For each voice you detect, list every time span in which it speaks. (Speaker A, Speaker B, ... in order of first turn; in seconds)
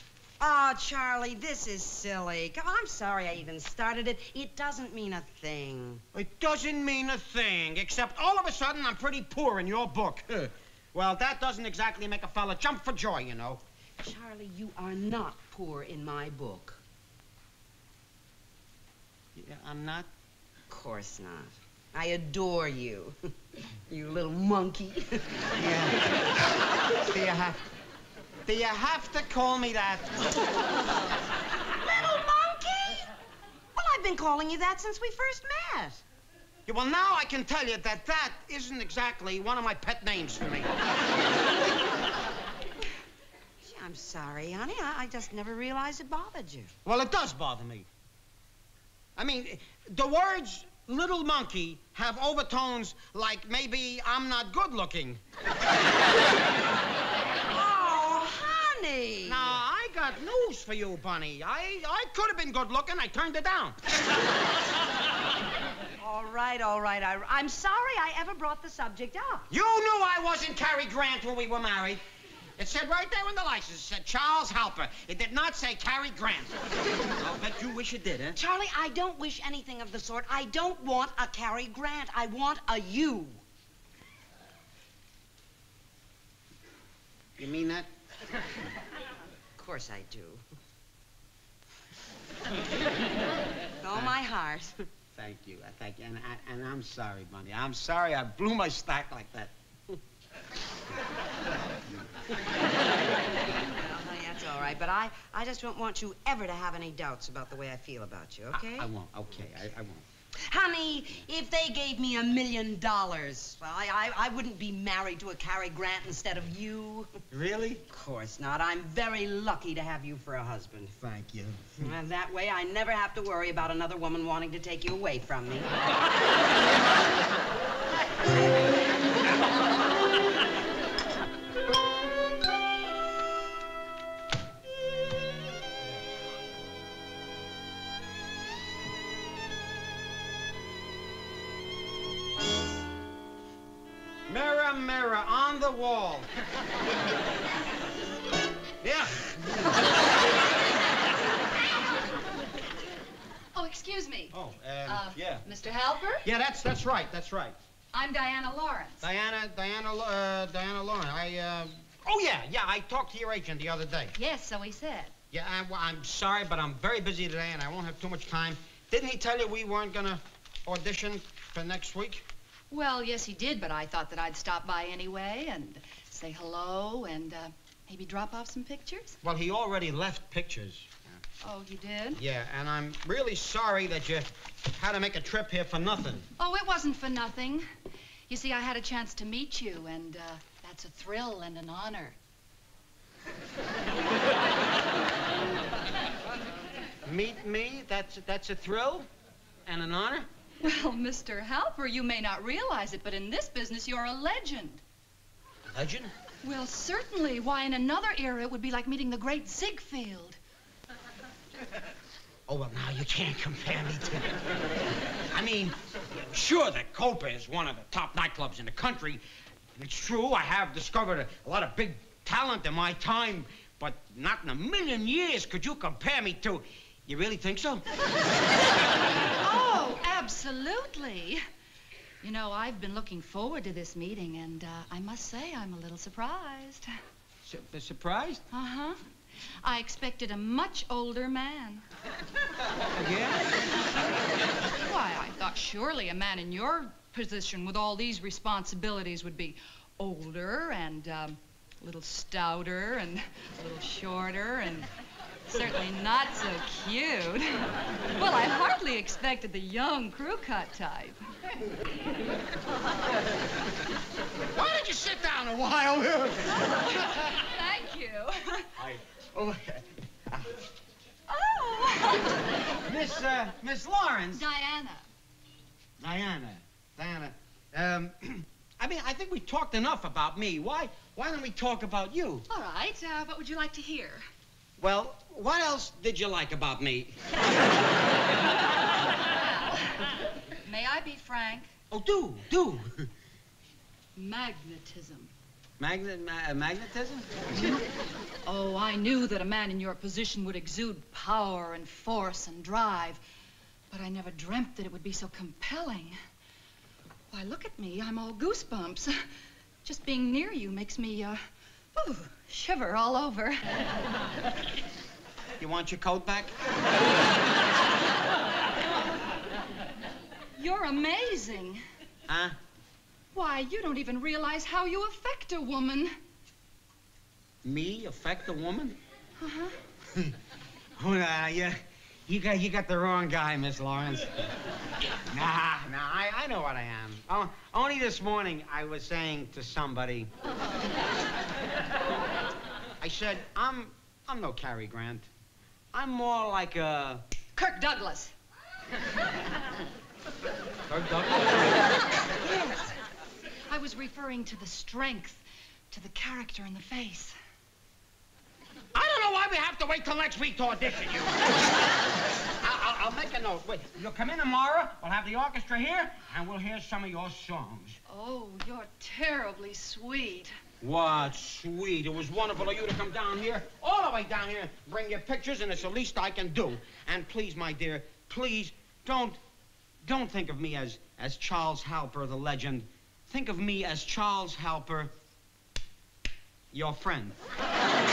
Speaker A: 0.4-6.0, 14.0-16.8, 20.7-23.1, 23.9-25.4, 31.8-33.1, 33.8-36.0, 43.6-46.7, 57.5-59.5, 66.0-69.5, 78.3-83.4, 89.6-90.4, 93.8-94.9, 103.7-108.9, 110.4-117.1, 117.9-121.0, 121.8-125.7
Speaker B: 6.1-13.6, 19.3-20.1, 25.6-26.0, 27.0-27.6, 28.4-30.2, 36.7-40.7, 46.8-47.9, 49.1-55.2, 59.2-63.8, 69.5-72.0, 72.6-76.6, 77.2-78.4, 87.4-87.9, 95.1-99.5, 108.5-110.0, 117.3-117.8, 121.0-121.7, 144.3-146.3, 148.8-149.3, 154.3-155.4, 156.2-157.6, 159.0-164.2, 165.3-172.2, 179.2-181.2, 182.2-186.3, 197.0-199.1, 199.7-200.3, 205.7-206.1, 212.5-214.4, 215.3-219.2, 219.8-227.8, 237.4-238.4, 242.9-243.7, 264.5-266.9, 268.8-270.6, 272.8-274.4, 276.0-282.4, 284.8-287.2, 291.9-293.1, 295.8-297.5, 315.6-316.5, 322.3-322.6, 327.6-329.0, 330.1-330.4, 331.0-334.5, 335.2-340.3, 343.0-345.3, 345.9-347.2, 350.9-351.8, 358.9-361.6, 362.6-368.0, 370.8-379.4, 380.0-385.1, 386.7-387.4
Speaker C: 153.5-156.2, 157.9-159.0, 164.2-165.1, 172.7-179.2, 181.4-182.2, 186.4-187.7, 188.3-192.2, 200.6-204.8, 206.4-210.4, 229.4-231.4, 232.2-236.9, 238.5-239.0, 239.6-241.8, 244.8-254.9, 255.5-261.2, 266.9-268.7, 271.3-272.5, 274.3-275.0, 282.5-284.2, 289.3-290.1, 290.6-291.7, 294.1-295.3, 298.4-303.2, 303.9-306.2, 307.3-309.2, 309.8-311.4, 311.9-313.6, 320.6-321.8, 323.3-326.1, 329.4-329.7, 347.6-348.3, 352.4-352.9, 353.7-357.3, 368.1-370.5